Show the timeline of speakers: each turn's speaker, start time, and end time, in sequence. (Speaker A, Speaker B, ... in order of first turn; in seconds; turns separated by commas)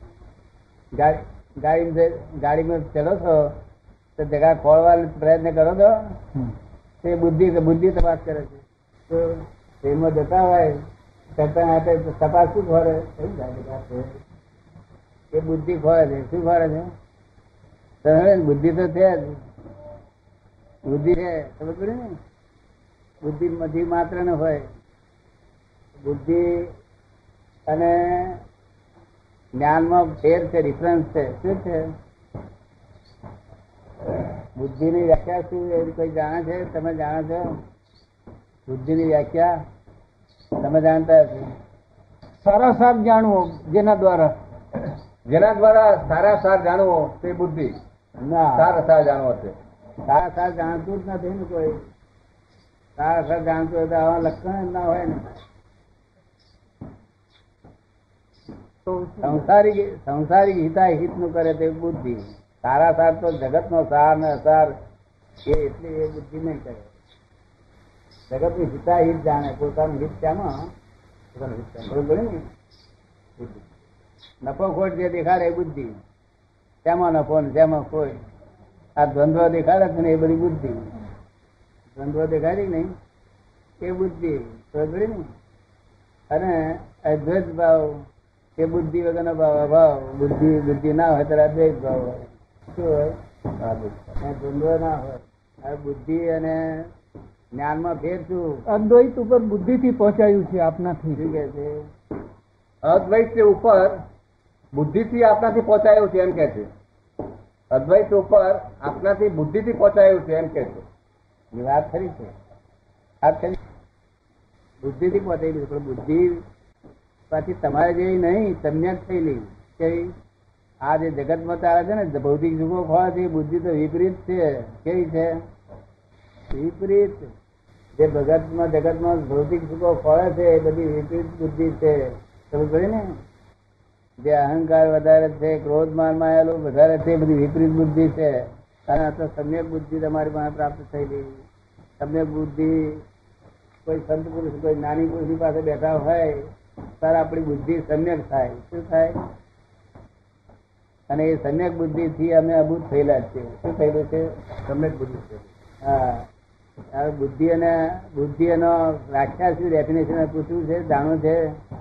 Speaker A: 0.9-3.6, Speaker A: 4.2-6.2, Speaker A: 7.0-10.8, Speaker A: 11.4-14.1, Speaker A: 15.3-16.9, Speaker A: 18.0-19.4, Speaker A: 20.9-22.2, Speaker A: 23.2-24.7, Speaker A: 26.0-26.7, Speaker A: 27.7-28.4, Speaker A: 29.6-31.9, Speaker A: 34.6-37.6, Speaker A: 38.7-39.6, Speaker A: 40.6-41.5, Speaker B: 42.4-44.4, Speaker C: 45.3-47.8, Speaker A: 48.2-48.7, Speaker C: 48.6-49.5, Speaker A: 50.1-51.8, Speaker A: 53.0-55.2, Speaker B: 58.9-59.4, Speaker A: 59.2-64.8, Speaker A: 65.5-66.9, Speaker A: 68.3-70.7, Speaker C: 71.3-71.9, Speaker A: 71.9-72.4, Speaker A: 74.4-76.0, Speaker A: 76.8-78.2, Speaker A: 79.0-80.9, Speaker A: 82.0-82.9, Speaker A: 83.8-85.3, Speaker A: 86.3-88.0, Speaker A: 88.6-93.2, Speaker C: 93.6-94.0, Speaker A: 94.2-96.9, Speaker A: 97.5-98.6, Speaker B: 98.7-101.2, Speaker A: 101.2-101.8, Speaker C: 102.8-104.0, Speaker C: 104.7-106.7, Speaker C: 107.7-110.8, Speaker A: 111.5-112.3, Speaker A: 113.2-113.6, Speaker A: 114.8-116.4, Speaker A: 117.3-120.1, Speaker A: 120.9-125.4, Speaker A: 126.5-127.3, Speaker A: 128.0-133.2, Speaker A: 134.2-141.4, Speaker A: 142.0-143.0, Speaker A: 143.8-146.5, Speaker A: 147.0-149.3, Speaker A: 151.1-154.3, Speaker C: 154.7-155.4, Speaker A: 155.8-156.3, Speaker A: 156.9-161.6